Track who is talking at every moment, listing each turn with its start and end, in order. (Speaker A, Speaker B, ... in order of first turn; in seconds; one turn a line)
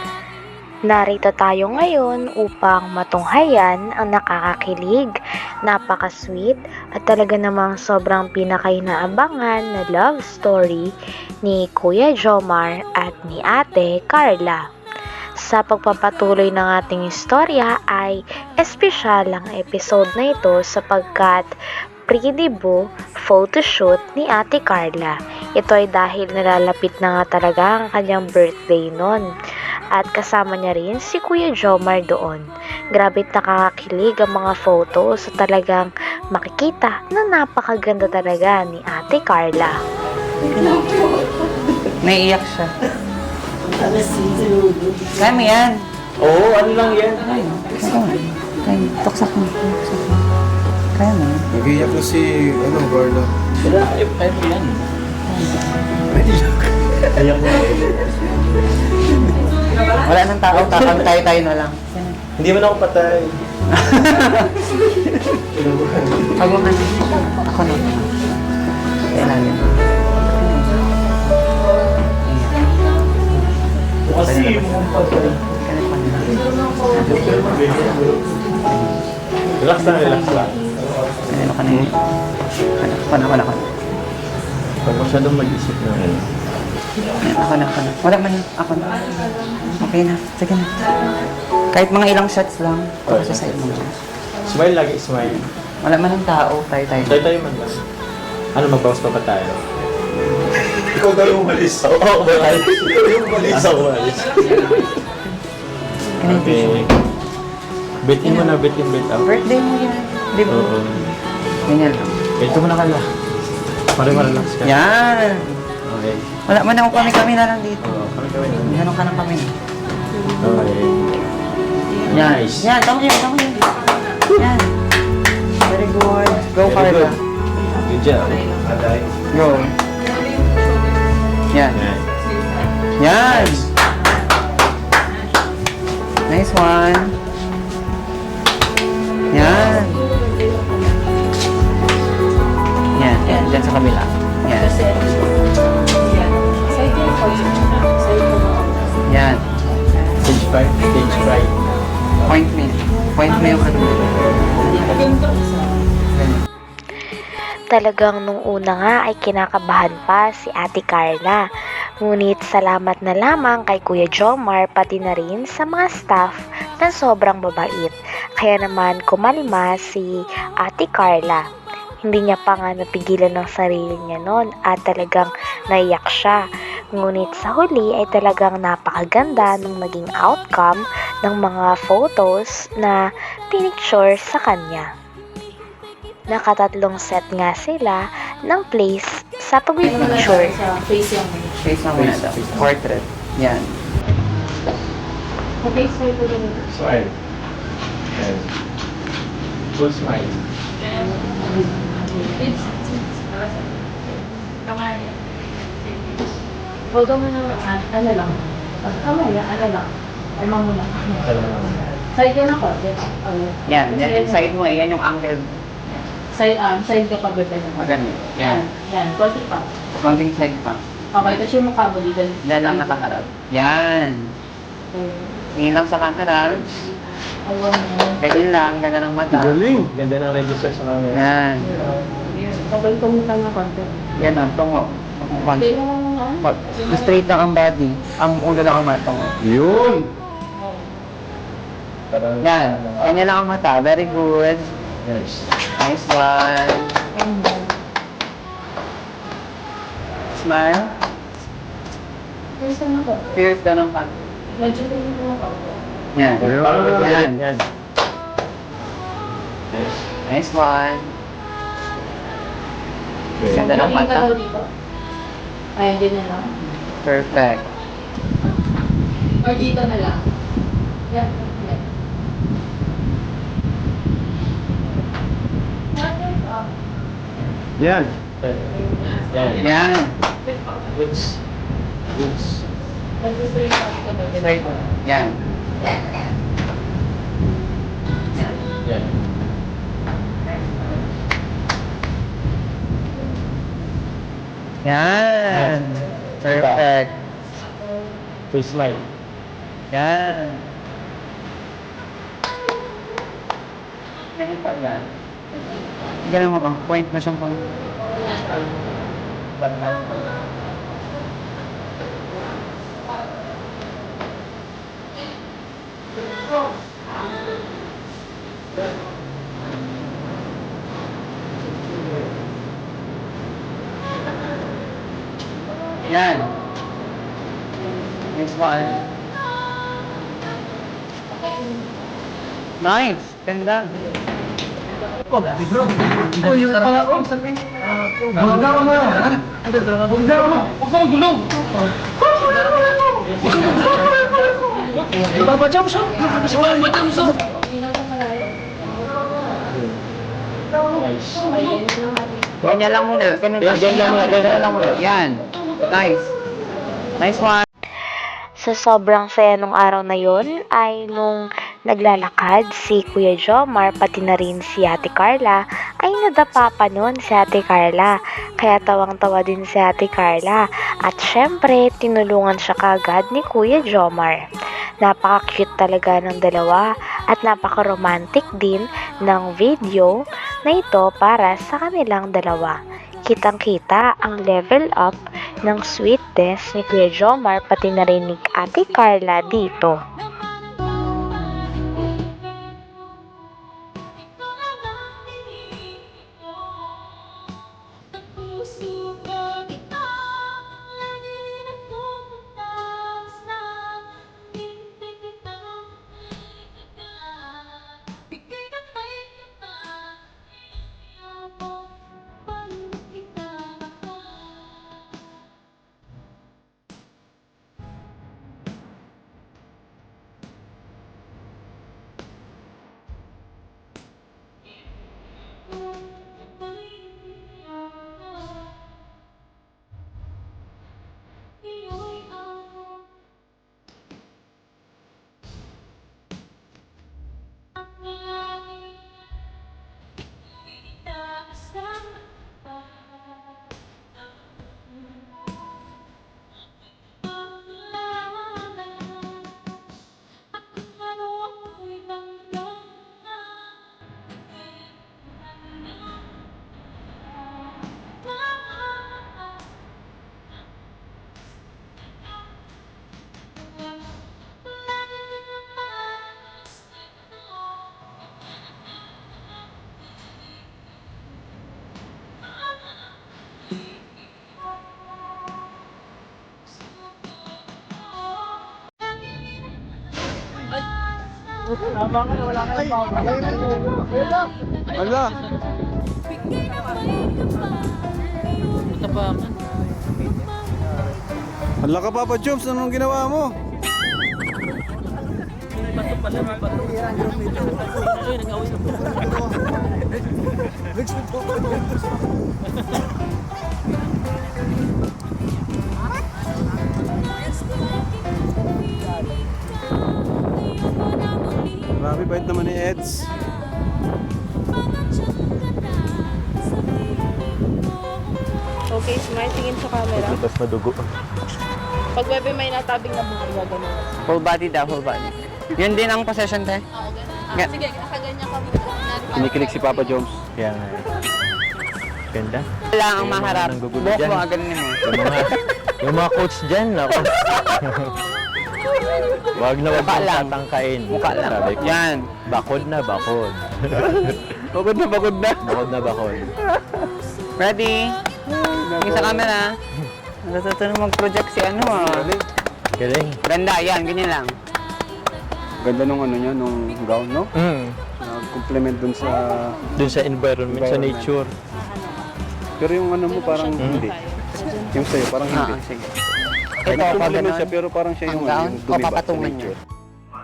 Speaker A: 0.9-10.9
Speaker A: 11.4-14.6
Speaker A: 15.4-21.5
Speaker A: 22.1-29.3
Speaker A: 29.9-39.8
Speaker B: 40.5-41.0
Speaker B: 42.0-42.7
Speaker C: 43.6-45.2
Speaker B: 45.1-45.8
Speaker C: 46.2-47.6
Speaker B: 47.6-50.2
Speaker B: 50.9-51.4
Speaker D: 51.5-53.3
Speaker C: 53.6-54.8
Speaker B: 55.2-55.7
Speaker C: 56.1-58.0
Speaker B: 59.9-62.2
Speaker C: 60.5-61.2
Speaker C: 62.4-63.4
Speaker B: 63.7-64.8
Speaker C: 65.4-66.5
Speaker B: 66.4-68.1
Speaker B: 69.1-70.9
Speaker B: 72.2-72.6
Speaker C: 74.0-75.4
Speaker B: 74.1-76.4
Speaker B: 76.9-77.5
Speaker C: 77.0-78.4
Speaker B: 78.6-79.0
Speaker C: 79.6-81.4
Speaker B: 79.7-80.6
Speaker B: 81.3-81.9
Speaker B: 82.8-83.7
Speaker C: 84.8-86.3
Speaker B: 87.2-90.8
Speaker B: 91.7-94.0
Speaker C: 93.1-93.9
Speaker C: 94.4-95.5
Speaker B: 95.8-97.2
Speaker C: 97.0-97.8
Speaker C: 98.5-99.6
Speaker C: 100.7-105.0
Speaker B: 106.2-106.8
Speaker C: 106.2-106.9
Speaker C: 108.0-109.3
Speaker B: 108.2-108.5
Speaker B: 109.2-110.7
Speaker C: 110.5-111.1
Speaker B: 111.7-112.1
Speaker C: 112.4-113.0
Speaker C: 113.9-114.8
Speaker B: 114.6-115.6
Speaker C: 115.9-116.3
Speaker B: 116.5-117.8
Speaker C: 117.8-118.8
Speaker B: 118.7-119.5
Speaker C: 120.4-121.1
Speaker C: 122.0-122.7
Speaker B: 122.1-123.7
Speaker B: 124.3-124.7
Speaker B: 125.6-127.2
Speaker C: 126.6-127.2
Speaker E: 127.6-127.8
Speaker C: 127.8-129.0
Speaker B: 129.3-129.7
Speaker B: 131.5-131.8
Speaker C: 131.7-132.1
Speaker B: 133.0-133.7
Speaker C: 133.2-133.7
Speaker B: 136.3-137.2
Speaker B: 139.3-140.1
Speaker B: 142.9-144.7
Speaker E: 144.6-145.2
Speaker E: 146.6-148.6
Speaker B: 149.1-149.5
Speaker C: 150.2-151.6
Speaker B: 152.2-154.7
Speaker C: 154.1-155.2
Speaker B: 156.1-156.4
Speaker A: 157.7-161.5
Speaker A: 162.0-171.4
Speaker A: 172.1-176.4
Speaker A: 176.9-184.9
Speaker A: 186.3-190.6
Speaker E: 189.8-191.5
Speaker B: 191.6-193.7
Speaker C: 191.9-192.8
Speaker E: 195.6-196.6
Speaker C: 196.7-197.1
Speaker C: 198.1-198.5
Speaker C: 199.7-200.4
Speaker E: 201.2-202.8
Speaker E: 204.7-205.1
Speaker E: 206.9-211.2
Speaker C: 211.2-211.8
Speaker E: 212.1-214.4
Speaker B: 213.7-216.0
Speaker E: 216.3-217.9
Speaker B: 217.7-218.7
Speaker E: 218.5-219.7
Speaker B: 220.0-220.8
Speaker E: 221.1-222.9
Speaker B: 222.4-224.3
Speaker B: 225.5-226.8
Speaker E: 227.5-228.2
Speaker B: 228.2-229.6
Speaker D: 229.4-229.9
Speaker C: 229.7-231.2
Speaker B: 231.1-231.7
Speaker E: 232.6-233.9
Speaker B: 234.2-235.8
Speaker E: 235.6-236.4
Speaker B: 236.4-239.4
Speaker D: 239.4-240.1
Speaker B: 242.4-244.7
Speaker B: 245.8-246.9
Speaker B: 250.4-250.9
Speaker E: 252.6-253.3
Speaker B: 253.3-254.1
Speaker E: 254.5-255.4
Speaker B: 256.1-257.4
Speaker C: 256.4-257.6
Speaker B: 260.2-261.1
Speaker C: 263.4-263.7
Speaker B: 263.5-264.4
Speaker E: 263.5-264.7
Speaker E: 265.8-266.5
Speaker B: 266.9-267.7
Speaker E: 269.4-270.2
Speaker E: 271.1-271.8
Speaker E: 276.0-276.4
Speaker C: 278.2-279.6
Speaker B: 279.6-280.1
Speaker C: 280.9-281.4
Speaker C: 282.1-282.6
Speaker B: 284.3-285.4
Speaker B: 294.8-297.1
Speaker C: 296.5-296.8
Speaker C: 298.5-299.0
Speaker B: 299.9-300.6
Speaker B: 304.3-305.1
Speaker B: 306.2-307.6
Speaker B: 309.6-310.2
Speaker B: 326.0-326.5
Speaker B: 328.3-329.0
Speaker B: 332.8-334.0
Speaker B: 336.4-337.3
Speaker B: 338.9-339.3
Speaker C: 345.4-346.0
Speaker C: 346.6-346.9
Speaker C: 350.9-351.4
Speaker E: 351.4-352.1
Speaker B: 352.6-356.2
Speaker C: 353.6-354.7
Speaker B: 357.2-357.6
Speaker A: 358.2-374.4
Speaker A: 375.0-390.0
Speaker D: 484.9-485.3
Speaker D: 491.8-493.5
Speaker D: 512.0-513.3
Speaker E: 518.9-520.4
Speaker C: 520.1-521.0
Speaker E: 522.1-524.1
Speaker B: 524.2-526.8
Speaker B: 527.5-527.8
Speaker E: 527.5-529.7
Speaker D: 529.3-530.4
Speaker C: 530.6-531.1
Speaker C: 532.3-534.5
Speaker B: 532.9-535.2
Speaker C: 535.0-538.1
Speaker C: 539.5-544.3
Speaker B: 539.9-540.6
Speaker B: 541.1-542.3
Speaker D: 544.7-545.6
Speaker C: 545.6-546.5
Speaker B: 547.6-548.2
Speaker D: 548.5-549.5
Speaker B: 549.0-549.7
Speaker B: 550.4-552.3
Speaker D: 551.8-552.5
Speaker C: 553.0-553.4
Speaker B: 553.4-554.5
Speaker D: 555.8-557.5
Speaker C: 557.6-558.0
Speaker D: 558.2-559.8
Speaker C: 559.9-561.5
Speaker D: 560.6-561.3
Speaker D: 562.8-564.1
Speaker E: 563.4-565.0
Speaker C: 563.8-564.1
Speaker D: 564.9-565.8
Speaker B: 565.5-566.1
Speaker B: 566.8-569.7
Speaker D: 566.9-569.7
Speaker C: 566.9-567.2